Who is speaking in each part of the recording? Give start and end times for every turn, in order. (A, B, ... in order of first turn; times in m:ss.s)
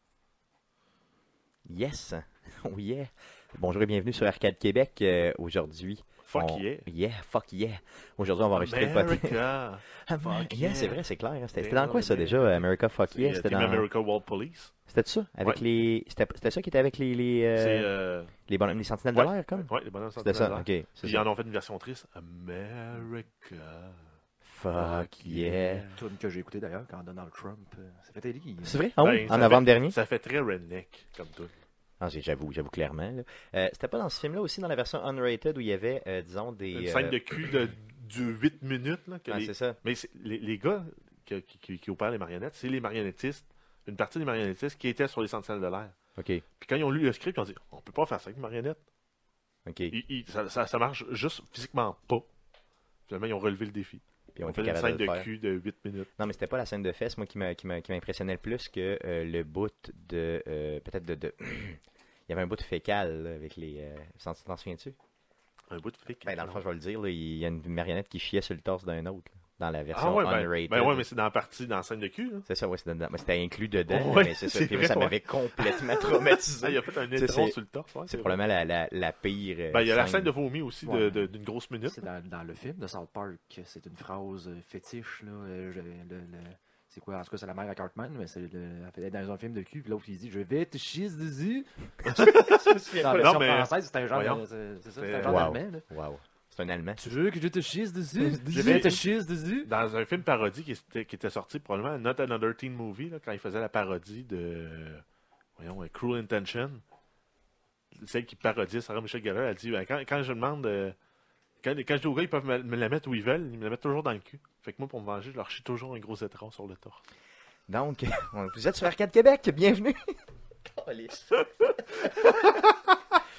0:01.7-0:09.4 A
0:06.2-0:06.9 B
0:08.5-0:11.0 B
0:09.9-0:13.9 A
0:11.6-0:14.7 B
0:14.9-0:17.9 A
0:17.6-0:18.3 B
0:18.5-0:21.3 A
0:19.1-0:24.0 B
0:24.4-0:25.9 A
0:24.7-0:26.0 B
0:25.9-0:28.8 C
0:28.6-0:30.0 A
0:29.0-0:31.5 B
0:32.0-0:37.2 A
0:36.7-0:45.9 B
0:39.3-0:39.8 A
0:46.2-0:46.4 A
0:46.6-0:48.8 B
0:49.7-0:50.0 A
0:49.9-0:52.3 B
0:53.1-0:56.1 B
0:54.3-0:55.3 A
0:56.2-1:05.0 A
1:05.7-1:06.6 B
1:06.2-1:11.1 A
1:09.9-1:12.5 B
1:12.5-1:17.6 A
1:13.9-1:18.4 B
1:18.1-1:20.3 A
1:19.7-1:22.0 B
1:20.8-1:21.3 C
1:21.9-1:31.7 C
1:32.1-1:34.4 B
1:32.1-1:33.4 A
1:33.0-1:35.8 C
1:35.0-1:35.5 B
1:35.2-1:37.2 A
1:37.0-1:39.7 C
1:38.2-1:38.9 A
1:38.5-1:39.1 B
1:39.6-1:45.0 B
1:45.6-1:46.8 B
1:48.0-1:51.0 B
1:51.6-1:57.0 B
1:57.7-2:02.6 A